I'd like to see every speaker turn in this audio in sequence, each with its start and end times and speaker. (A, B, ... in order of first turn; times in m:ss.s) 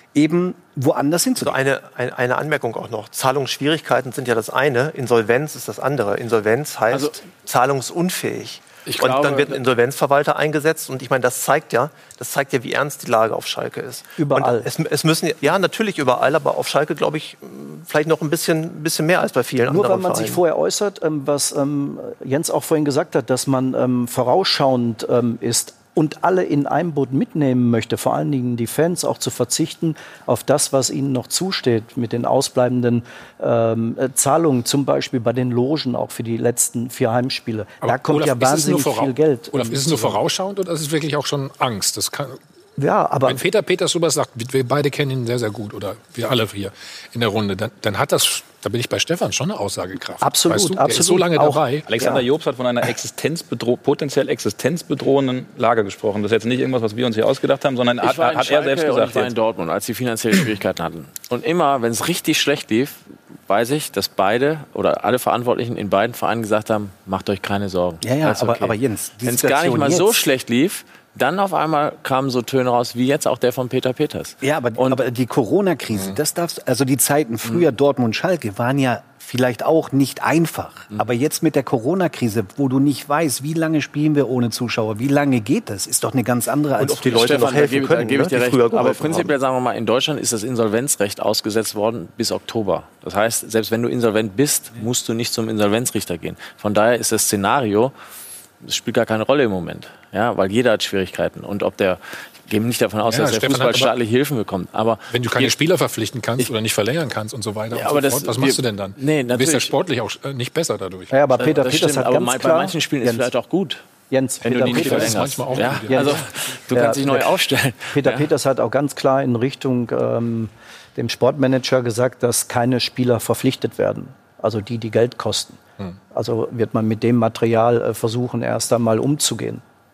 0:00.1-0:01.6 A
0:01.4-0:20.4 B
0:06.9-0:07.2 C
0:08.9-0:09.6 C
0:14.2-0:14.7 D
0:19.7-0:40.2 D
0:37.8-0:42.4 E
0:42.8-0:43.4 D
0:43.2-0:51.9 E
0:50.2-0:52.2 D
0:51.9-0:59.3 F
0:58.0-1:15.0 C
1:08.0-1:10.2 A
1:14.4-1:27.9 A
1:26.8-1:29.4 B
1:27.1-1:37.9 C
1:38.6-1:45.5 C
1:43.1-1:43.9 E
1:45.1-1:51.4 E
1:47.7-1:49.7 C
1:51.1-1:53.3 D
1:51.4-1:53.8 C
1:54.1-2:05.6 D
1:54.4-1:58.3 C
1:54.6-1:56.3 E
2:06.1-2:09.6 D